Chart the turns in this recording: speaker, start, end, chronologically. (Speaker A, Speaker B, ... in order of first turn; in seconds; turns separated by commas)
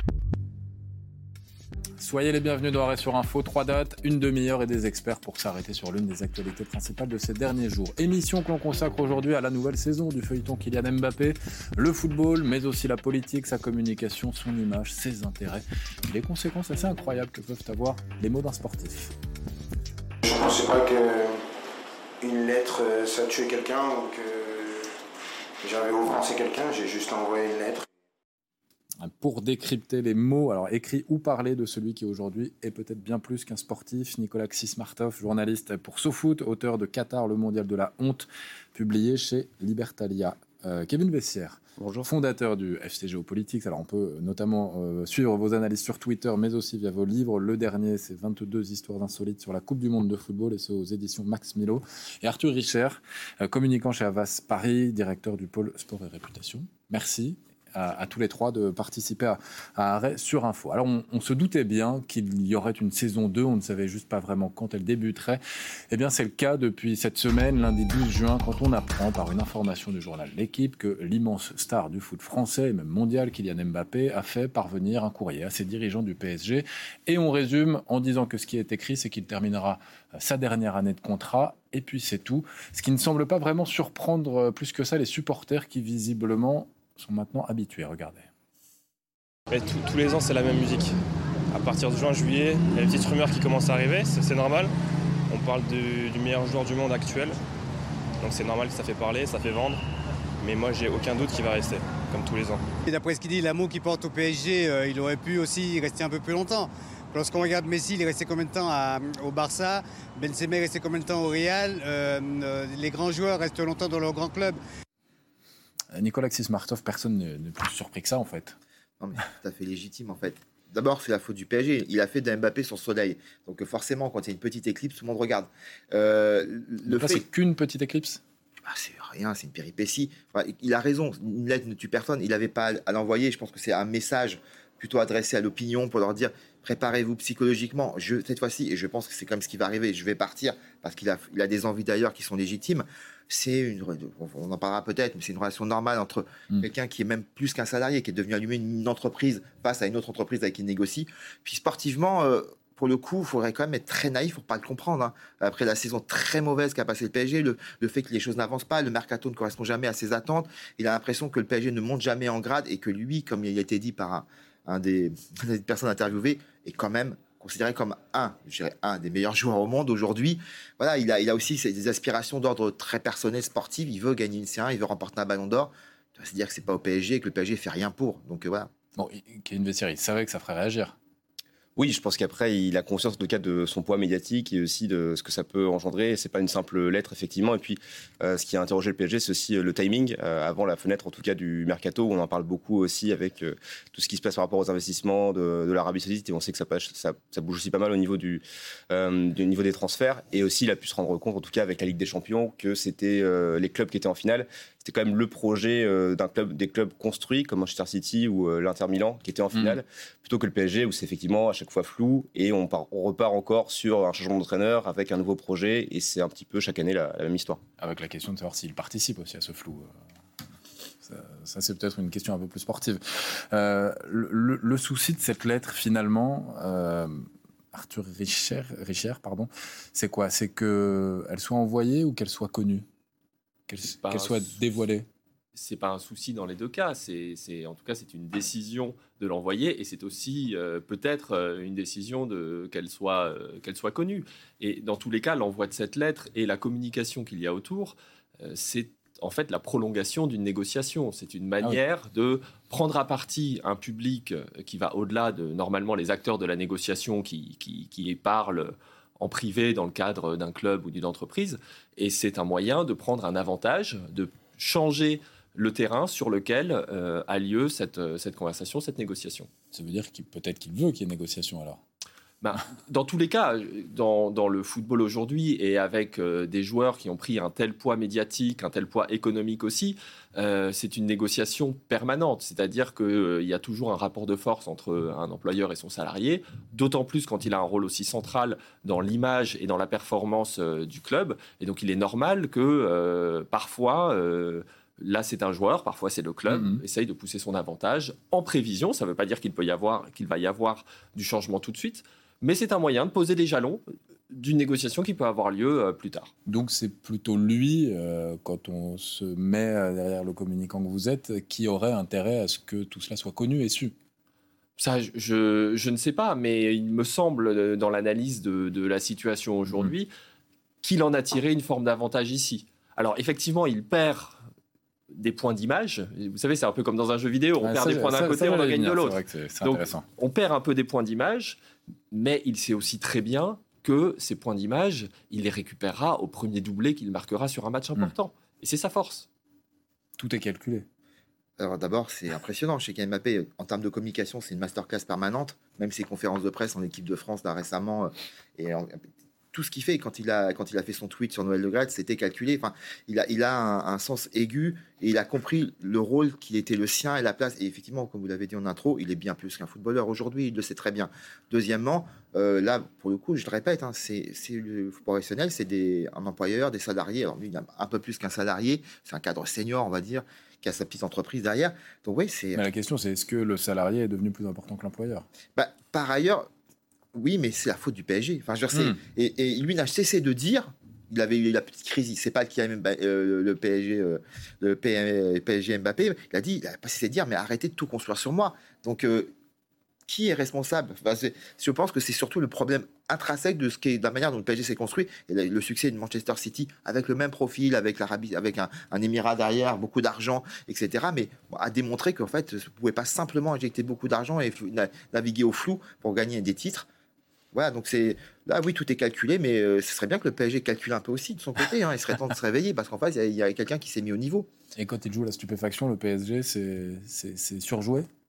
Speaker A: 2.0-19.1, Speaker B: 20.2-21.4, Speaker B: 22.2-24.9, Speaker B: 25.6-27.9, Speaker A: 29.0-88.3, Speaker C: 41.8-42.1, Speaker D: 89.5-91.0, Speaker D: 91.5-94.7, Speaker D: 95.3-97.4, Speaker D: 98.2-99.8, Speaker D: 100.4-102.6, Speaker E: 102.8-114.6, Speaker A: 115.9-118.5, Speaker F: 119.0-127.2, Speaker A: 126.8-128.2, Speaker F: 128.6-178.7, Speaker A: 178.9-180.9, Speaker C: 181.8-217.6, Speaker A: 209.5-209.8, Speaker A: 217.8-219.9, Speaker A: 221.0-232.8, Speaker A: 233.7-235.1, Speaker G: 233.8-234.5, Speaker G: 235.6-269.5, Speaker A: 269.7-271.8, Speaker G: 272.4-306.3, Speaker A: 296.5-296.8, Speaker A: 306.4-313.9, Speaker G: 314.8-320.1, Speaker G: 320.8-324.4, Speaker G: 325.1-331.6, Speaker A: 327.6-330.0, Speaker G: 332.1-339.3, Speaker A: 340.2-340.8, Speaker F: 341.6-349.0, Speaker F: 349.5-372.6, Speaker A: 372.5-375.2, Speaker F: 375.5-376.5, Speaker F: 377.1-389.3, Speaker A: 378.7-379.0, Speaker F: 390.1-406.9, Speaker F: 407.5-414.5, Speaker A: 414.8-418.1